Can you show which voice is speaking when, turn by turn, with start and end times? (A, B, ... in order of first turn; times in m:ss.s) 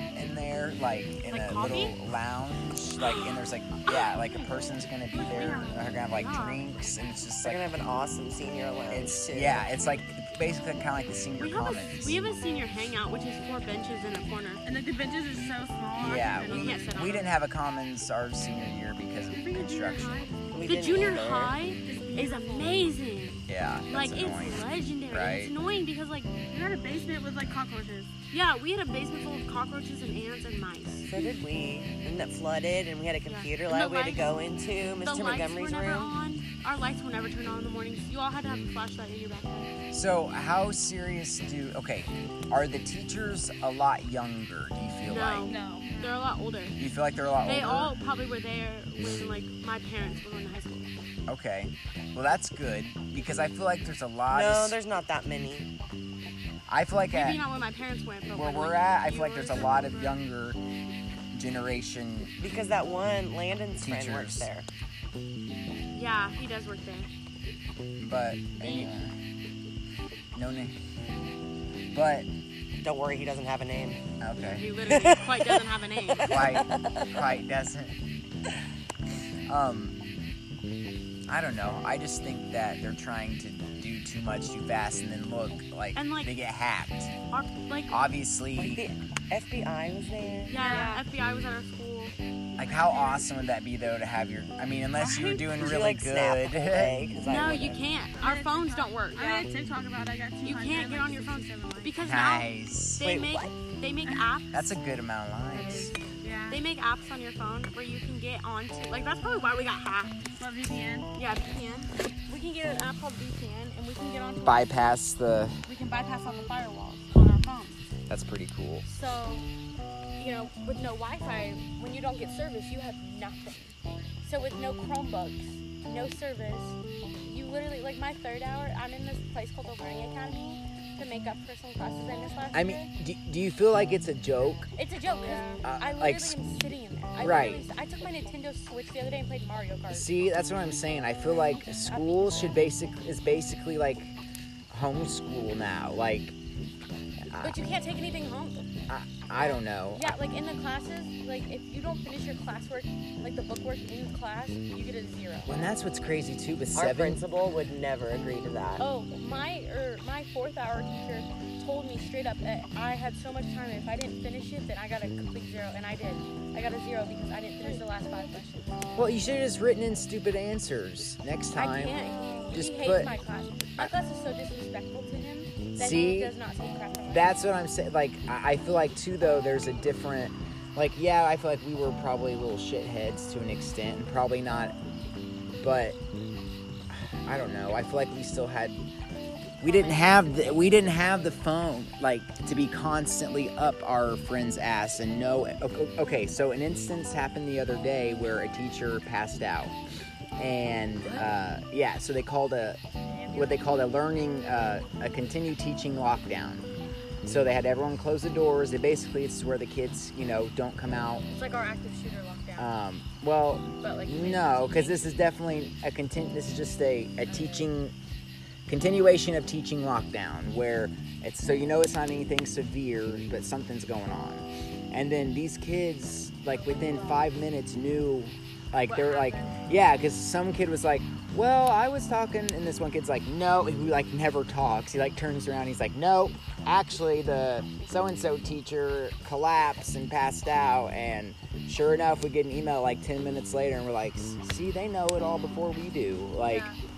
0:00.1-0:07.6 A
0:01.3-0:02.0 B
0:03.8-0:04.4 B
0:05.1-0:06.0 C
0:06.1-0:06.8 B
0:07.4-0:09.7 D
0:08.9-0:12.2 A
0:11.4-0:14.6 B
0:14.6-0:16.9 C
0:16.0-0:20.3 A
0:16.5-0:17.3 B
0:19.3-0:20.4 C
0:20.5-0:21.6 D
0:20.6-0:26.4 B
0:21.8-0:22.9 C
0:23.5-0:25.5 A
0:26.4-0:28.1 C
0:28.3-0:31.3 B
0:31.1-0:36.1 D
0:33.2-0:34.4 B
0:35.0-0:39.7 B
0:39.9-0:45.6 A
0:45.0-0:46.8 B
0:45.4-0:46.3 C
0:46.8-0:48.0 A
0:47.4-0:50.9 B
0:51.3-0:54.8 A
0:54.3-0:55.7 D
0:56.7-0:57.5 A
0:57.1-1:00.2 B
0:58.3-1:00.6 A
1:01.3-1:02.3 A
1:02.4-1:04.7 D
1:03.8-1:04.5 A
1:05.9-1:07.1 B
1:08.0-1:09.1 A
1:08.6-1:08.9 B
1:10.3-1:10.8 A
1:11.9-1:12.3 A
1:12.8-1:14.0 D
1:14.2-1:14.8 A
1:14.5-1:16.5 B
1:14.9-1:15.6 D
1:16.1-1:17.2 D
1:16.2-1:18.0 A
1:19.5-1:20.0 A
1:21.3-1:27.1 A
1:25.9-1:26.3 B
1:27.3-1:28.0 B
1:27.9-1:28.8 A
1:28.5-1:30.6 D
1:30.5-1:33.2 B
1:30.5-1:31.0 C
1:32.6-1:37.0 A
1:34.9-1:35.5 C
1:35.5-1:37.8 D
1:37.2-1:39.5 B
1:38.1-1:41.9 C
1:40.4-1:44.7 B
1:42.0-1:43.3 A
1:43.0-1:43.5 D
1:44.5-1:46.0 A
1:45.5-1:46.6 C
1:45.6-1:45.9 B
1:46.5-1:50.2 B
1:50.4-1:51.1 C
1:51.1-1:55.0 B
1:54.4-1:55.6 A
1:55.6-1:57.8 B
1:58.1-1:58.8 A
1:58.8-1:59.5 B
2:00.2-2:12.9 B
2:12.5-2:14.7 A
2:14.8-2:20.2 B
2:15.2-2:15.6 C
2:15.6-2:16.4 A
2:17.2-2:17.6 A
2:19.9-2:24.2 A
2:21.4-2:22.6 B
2:24.7-2:26.4 A
2:27.4-2:28.7 B
2:28.9-2:30.2 A
2:29.4-2:35.7 B
2:35.5-2:37.2 A
2:36.7-2:38.8 D
2:38.8-2:48.8 B
2:49.0-2:52.0 A
2:51.5-2:57.4 B
2:52.5-2:53.2 A
2:55.7-2:56.3 A
2:57.0-3:04.7 A
3:05.6-3:06.0 A
3:06.9-3:08.8 A
3:09.6-3:19.7 A
3:09.6-3:11.0 B
3:20.4-3:22.8 A
3:23.1-3:23.7 B
3:23.3-3:26.7 A
3:27.2-3:31.2 A
3:31.3-3:32.7 B
3:32.6-3:37.9 A
3:33.8-3:35.0 B
3:37.2-3:37.7 B
3:38.7-4:06.7 A
3:48.9-3:49.4 C
3:48.9-3:49.5 B
4:06.4-4:06.8 B